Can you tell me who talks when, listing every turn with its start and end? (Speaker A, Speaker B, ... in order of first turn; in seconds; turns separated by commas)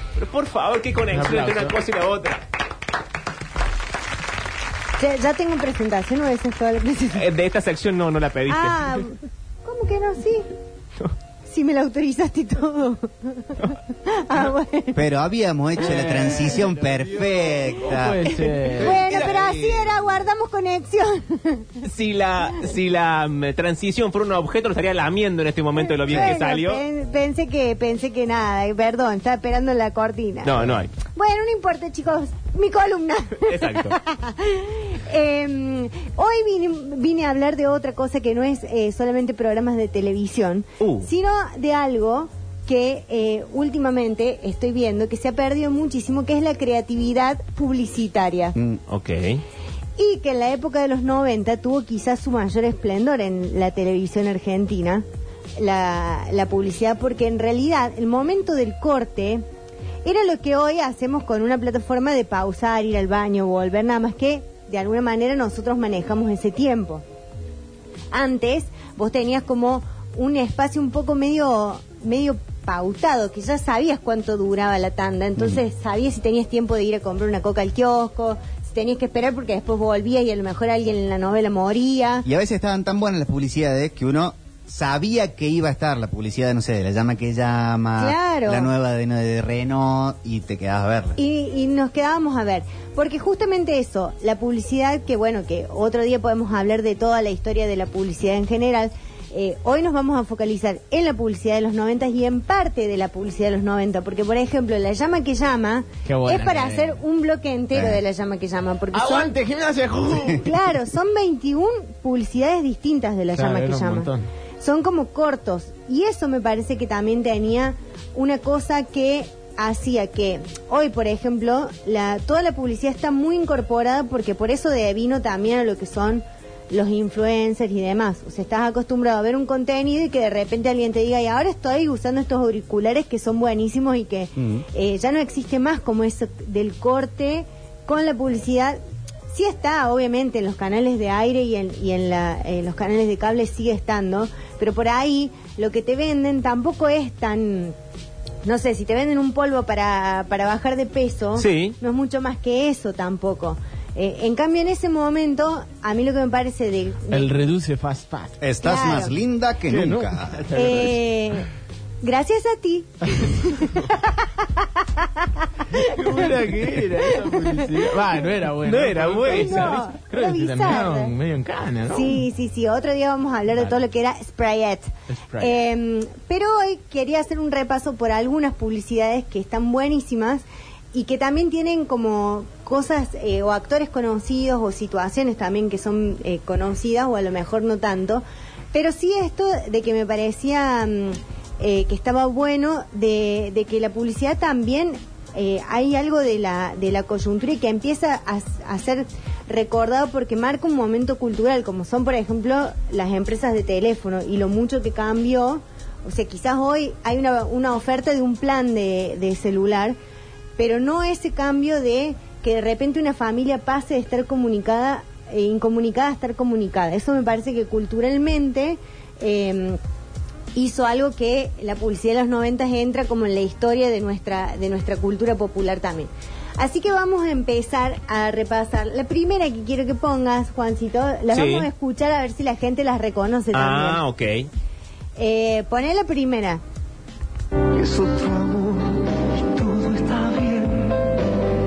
Speaker A: 0.2-2.4, Speaker B: 1.1-1.8, Speaker C: 5.0-7.2, Speaker A: 7.2-8.9, Speaker C: 8.5-10.5, Speaker C: 11.5-15.0, Speaker D: 14.9-20.0, Speaker B: 15.8-19.0, Speaker C: 18.8-21.7, Speaker A: 21.8-26.8, Speaker C: 25.8-48.5, Speaker A: 30.4-30.9, Speaker A: 33.4-34.0, Speaker A: 40.8-41.1, Speaker D: 48.5-48.8, Speaker A: 48.9-49.4, Speaker C: 50.0-55.0, Speaker C: 55.6-59.4, Speaker C: 60.0-67.0, Speaker C: 68.1-82.3, Speaker D: 75.4-75.6, Speaker D: 82.2-91.2, Speaker C: 88.0-88.7, Speaker C: 91.2-109.3, Speaker B: 106.1-107.0, Speaker D: 107.7-108.0, Speaker B: 108.9-110.4, Speaker C: 110.1-138.8, Speaker B: 113.3-114.3, Speaker D: 134.4-134.7, Speaker C: 139.3-147.8, Speaker C: 148.4-157.3, Speaker A: 151.4-151.8, Speaker B: 157.1-158.4, Speaker D: 158.4-160.5, Speaker C: 158.6-159.1, Speaker B: 159.7-160.9, Speaker C: 160.6-161.5, Speaker C: 162.0-166.5, Speaker B: 165.8-172.3, Speaker C: 167.0-167.7, Speaker A: 168.6-169.8, Speaker C: 169.2-171.2, Speaker C: 171.9-210.0, Speaker B: 175.1-175.7, Speaker C: 210.6-219.8, Speaker C: 220.6-234.0, Speaker A: 231.3-231.7, Speaker A: 233.5-234.5, Speaker C: 235.2-236.6, Speaker E: 237.8-241.2